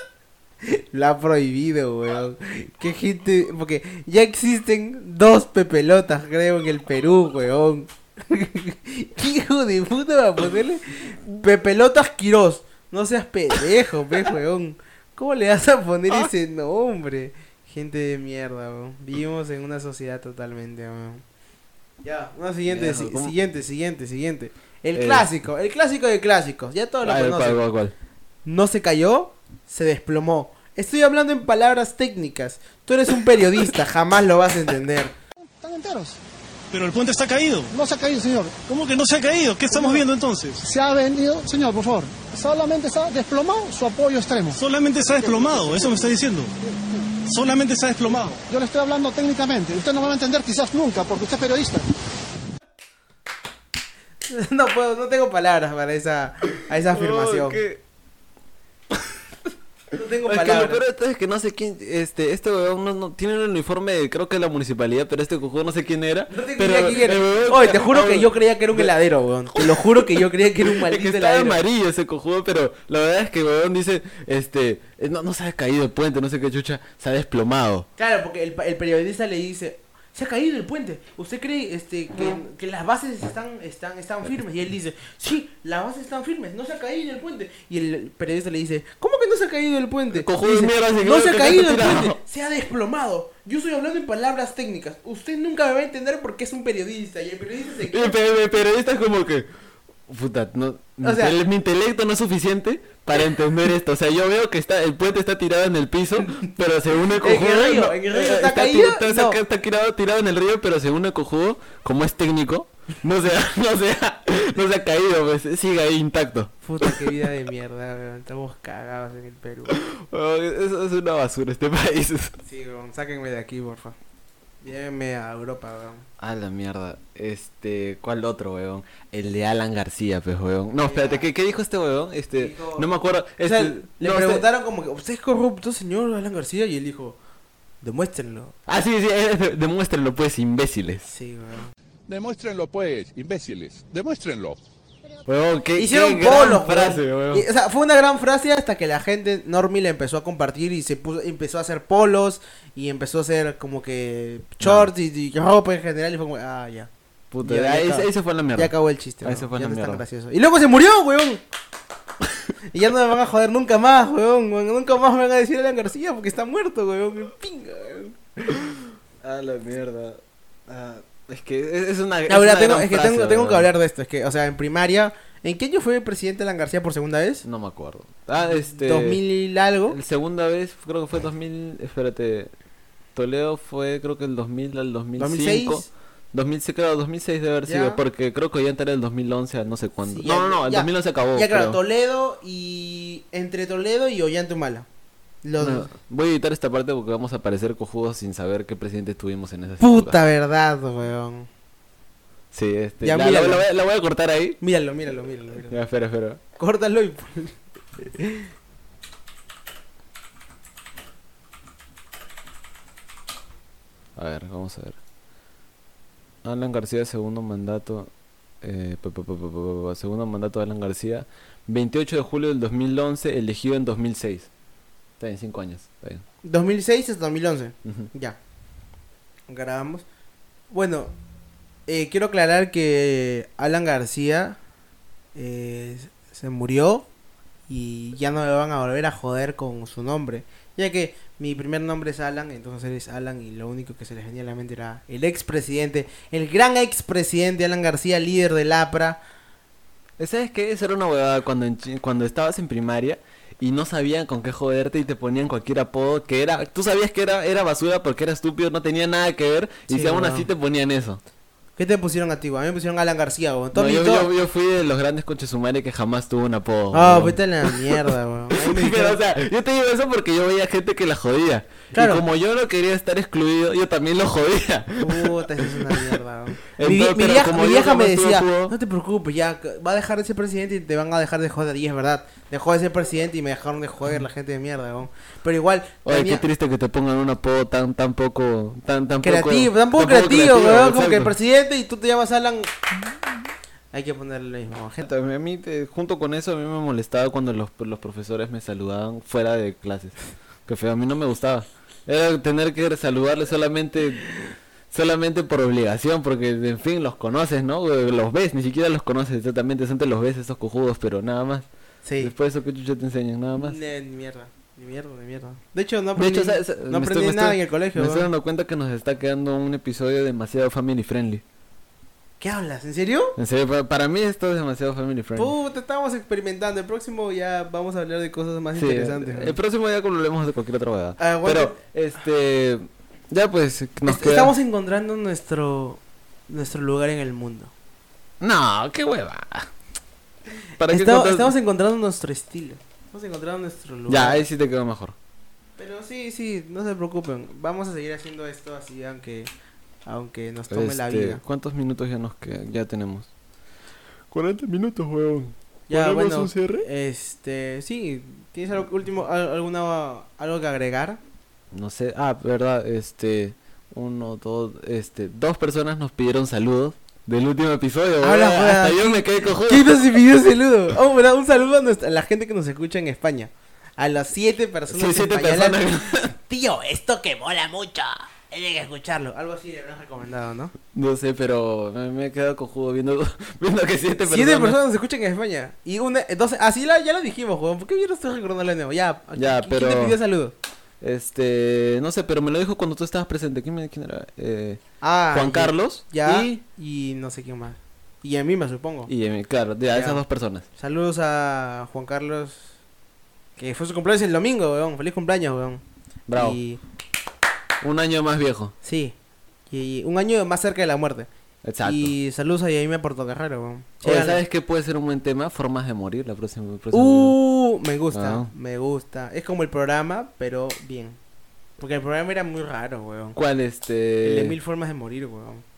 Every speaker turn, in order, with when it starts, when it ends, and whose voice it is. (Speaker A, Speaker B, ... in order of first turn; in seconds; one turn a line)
Speaker A: 0.7-21.2
Speaker A: 22.0-27.7
Speaker B: 22.7-23.3
Speaker B: 24.9-25.3
Speaker B: 27.0-27.9
Speaker A: 28.4-35.1
Speaker C: 35.4-36.2
Speaker D: 36.7-37.7
Speaker C: 37.7-38.9
Speaker D: 38.7-40.6
Speaker C: 39.7-40.0
Speaker C: 40.6-46.0
Speaker D: 44.5-46.5
Speaker D: 47.3-48.4
Speaker C: 48.3-51.9
Speaker A: 54.3-57.6
Speaker B: 56.9-57.8
Speaker A: 59.9-60.8
Speaker B: 60.3-68.9
Speaker A: 66.3-71.6
Speaker B: 69.5-77.9
Speaker A: 78.0-98.2
Speaker B: 90.1-92.2
Speaker B: 97.9-99.5
Speaker B: 100.1-117.1
Speaker A: 101.0-101.4
Speaker A: 107.2-109.4
Speaker A: 116.6-119.8
Speaker B: 119.7-122.4
Speaker A: 122.4-124.0
Speaker A: 124.6-126.1
Speaker B: 126.2-134.4
Speaker A: 130.8-131.3
Speaker A: 132.4-137.2
Speaker A: 137.8-138.6
Speaker B: 138.7-141.1
Speaker A: 141.1-141.7
Speaker E: 142.1-144.6
Speaker B: 145.2-147.5
Speaker A: 145.8-156.9
Speaker B: 154.6-154.9
Speaker B: 157.3-160.0
Speaker A: 157.4-161.4
Speaker A: 162.7-168.5
Speaker B: 169.2-173.7
Speaker A: 172.3-177.4
Speaker B: 177.4-179.2
Speaker A: 178.5-180.0
Speaker B: 179.9-182.5
Speaker B: 183.2-191.8
Speaker A: 185.2-185.9
Speaker A: 187.7-188.0
Speaker A: 190.1-194.9
Speaker A: 195.4-195.9
Speaker B: 195.6-200.2
Speaker A: 199.8-201.5
Speaker B: 202.5-204.6
Speaker A: 203.0-203.7
Speaker A: 204.6-205.8
Speaker B: 205.7-206.4
Speaker A: 206.6-208.5
Speaker B: 214.2-215.0
Speaker B: 216.4-218.1
Speaker B: 218.6-224.5
Speaker B: 225.2-226.2
Speaker A: 226.4-228.4
Speaker A: 229.5-230.1
Speaker A: 230.7-231.1
Speaker A: 231.9-234.6
Speaker A: 235.3-237.1
Speaker A: 237.7-249.2
Speaker B: 250.2-261.2
Speaker A: 259.9-260.5
Speaker A: 261.8-264.3
Speaker B: 263.7-276.2
Speaker A: 266.9-269.2
Speaker A: 271.9-272.2
Speaker A: 275.0-286.5
Speaker B: 276.7-278.8
Speaker B: 286.1-291.3
Speaker A: 289.2-292.8
Speaker A: 293.9-295.1
Speaker B: 295.0-304.2
Speaker B: 304.9-311.7
Speaker A: 312.0-312.3
Speaker B: 312.2-313.8
Speaker A: 313.6-318.3
Speaker B: 316.2-321.4
Speaker A: 322.4-323.4
Speaker B: 323.4-325.5
Speaker A: 325.4-329.6
Speaker B: 328.7-334.5
Speaker A: 331.2-331.8
Speaker A: 334.1-337.7
Speaker B: 338.4-339.7
Speaker B: 340.8-341.5
Speaker A: 340.9-344.4
Speaker B: 344.1-345.2
Speaker A: 345.8-349.5
Speaker A: 350.1-351.4
Speaker B: 350.7-353.3
Speaker B: 354.3-356.9
Speaker A: 355.9-361.2
Speaker B: 361.7-370.0
Speaker A: 368.2-380.7
Speaker B: 374.9-376.3
Speaker B: 380.9-384.8
Speaker A: 384.3-390.6
Speaker B: 389.4-390.2
Speaker B: 391.0-396.6
Speaker A: 395.0-399.1
Speaker B: 399.1-400.7
Speaker A: 399.9-400.2
Speaker A: 400.8-402.8
Speaker A: 403.6-405.8
Speaker B: 406.3-406.6
Speaker A: 406.3-406.8
Speaker B: 407.8-408.7
Speaker A: 408.8-409.1
Speaker A: 409.7-411.3
Speaker B: 411.6-412.1
Speaker A: 411.8-414.4
Speaker B: 414.0-417.4
Speaker A: 416.9-421.2
Speaker B: 418.1-418.5
Speaker A: 421.8-423.4
Speaker B: 423.4-424.6
Speaker A: 424.2-425.6